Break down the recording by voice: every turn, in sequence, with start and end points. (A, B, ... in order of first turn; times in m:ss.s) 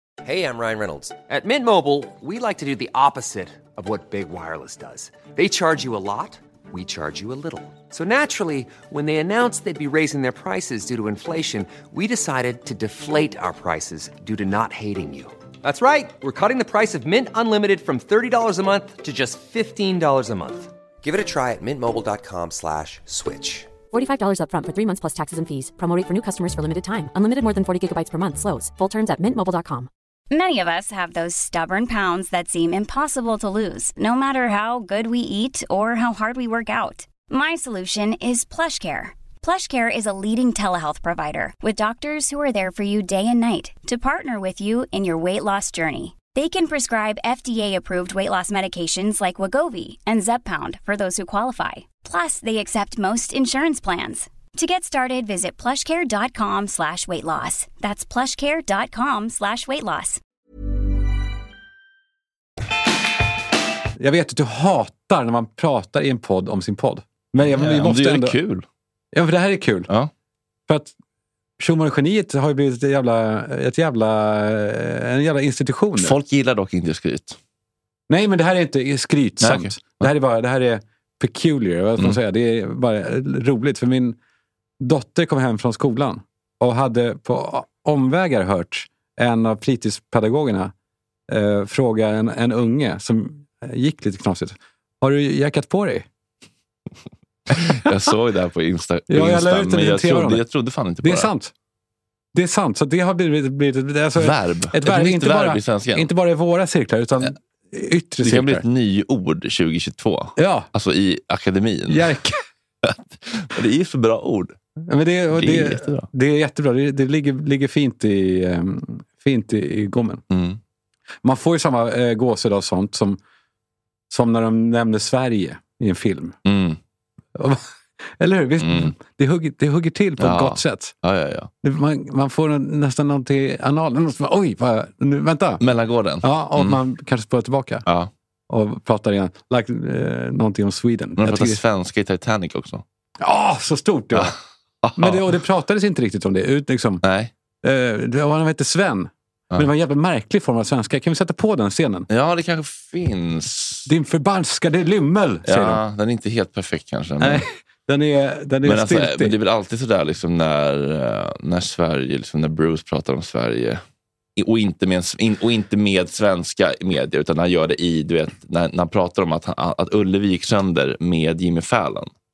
0:00.2-0:23.7 A
0:23.9-0:29.9 B
0:30.3-1:00.2 C
1:04.0-1:08.4 D
1:07.4-1:08.7 E
1:09.1-1:09.9 D
1:10.7-1:10.9 D
1:11.6-1:16.2 D
1:16.0-1:17.4 E
1:18.1-1:24.2 D
1:19.4-1:20.1 E
1:24.8-1:30.7 D
1:31.3-1:36.1 D
1:37.5-1:41.3 E
1:39.1-1:40.4 D
1:41.0-1:41.5 D
1:42.3-1:48.6 D
1:44.2-1:46.1 E
1:48.2-1:52.1 E
1:50.4-1:50.7 D
1:51.9-1:52.4 D
1:52.8-1:54.6 E
1:54.9-2:00.2 D
1:55.3-1:56.1 E
2:00.3-2:00.6 E
2:01.2-2:03.2 D
2:04.1-2:06.4 D
2:06.4-2:06.8 E
2:07.4-2:07.6 D
2:08.2-2:10.9 D
2:08.6-2:08.9 E
2:10.2-2:11.5 E
2:11.6-2:15.6 D
2:15.6-2:16.8 E
2:16.2-2:17.8 D
2:17.9-2:18.1 E
2:18.5-2:21.6 D
2:21.2-2:22.8 E
2:23.2-2:24.4 D
2:24.1-2:25.3 E
2:25.0-2:27.0 D
2:27.0-2:27.3 E
2:27.6-2:32.1 D
2:32.1-2:33.9 E
2:33.9-2:35.8 D
2:35.4-2:37.4 E
2:37.2-2:39.4 D
2:38.6-2:43.8 E
2:44.4-2:52.1 E